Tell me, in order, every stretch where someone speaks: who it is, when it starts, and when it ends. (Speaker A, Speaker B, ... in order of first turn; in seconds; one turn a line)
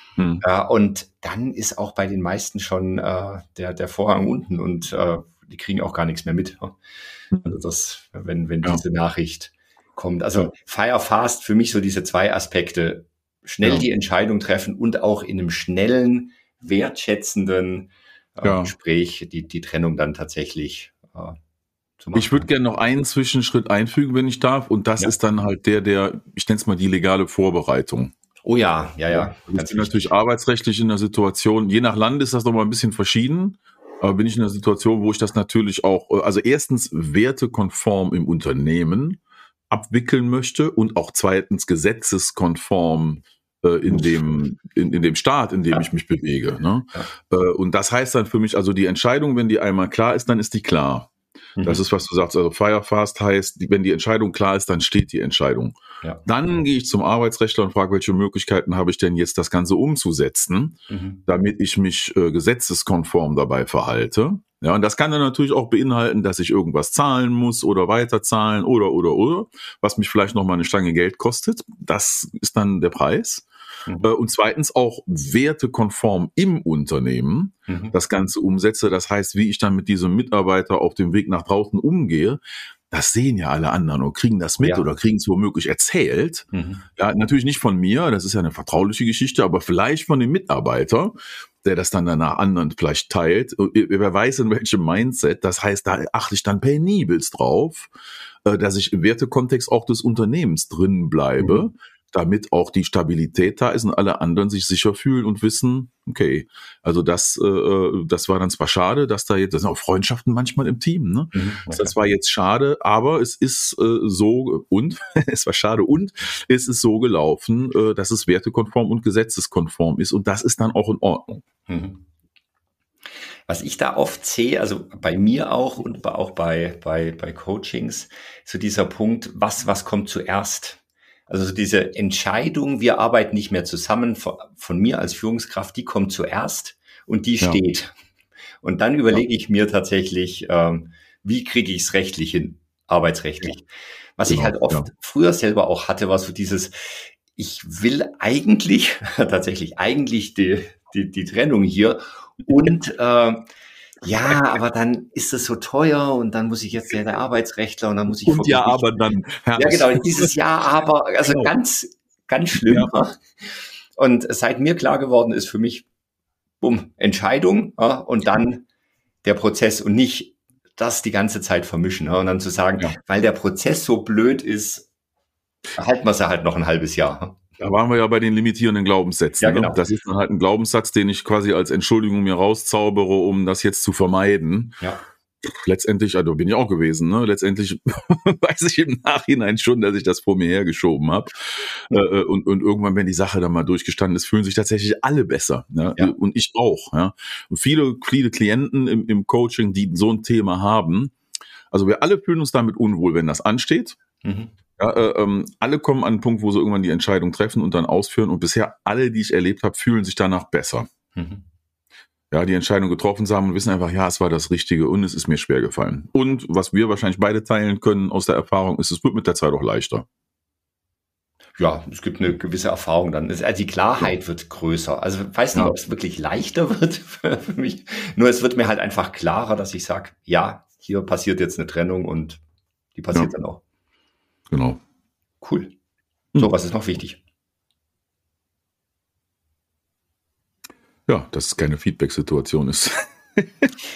Speaker A: 0.2-0.4
Speaker B: 0.4-6.8
Speaker B: 7.4-21.4
Speaker A: 18.4-18.7
Speaker B: 22.0-22.5
Speaker A: 22.1-28.1
Speaker B: 28.4-30.2
Speaker A: 29.1-51.1
Speaker B: 43.9-44.2
Speaker B: 51.6-51.8
Speaker A: 51.6-73.5
Speaker B: 60.9-61.2
Speaker B: 73.9-74.1
Speaker A: 74.0-86.5
Speaker B: 77.7-78.0
Speaker B: 84.6-84.8
Speaker B: 86.5-86.9
Speaker A: 87.0-97.9
Speaker A: 98.5-121.4
Speaker B: 111.3-111.9
Speaker B: 121.7-122.0
Speaker B: 123.5-137.9
Speaker B: 138.6-153.4
Speaker A: 144.3-144.9
Speaker B: 154.0-159.0
Speaker A: 158.1-160.3
Speaker B: 159.6-165.9
Speaker A: 161.2-161.5
Speaker A: 162.7-162.9
Speaker B: 166.6-168.7
Speaker B: 169.2-174.9
Speaker B: 175.8-177.4
Speaker A: 177.6-184.8
Speaker B: 179.4-179.9
Speaker A: 185.4-191.3
Speaker A: 191.9-201.2
Speaker A: 201.7-204.0
Speaker B: 204.2-204.5
Speaker A: 204.8-210.9
Speaker B: 211.2-211.4
Speaker A: 212.3-220.1
Speaker B: 221.6-232.4
Speaker B: 232.9-233.6
Speaker A: 234.5-234.8
Speaker B: 235.4-235.7
Speaker B: 236.4-237.2
Speaker A: 241.1-243.7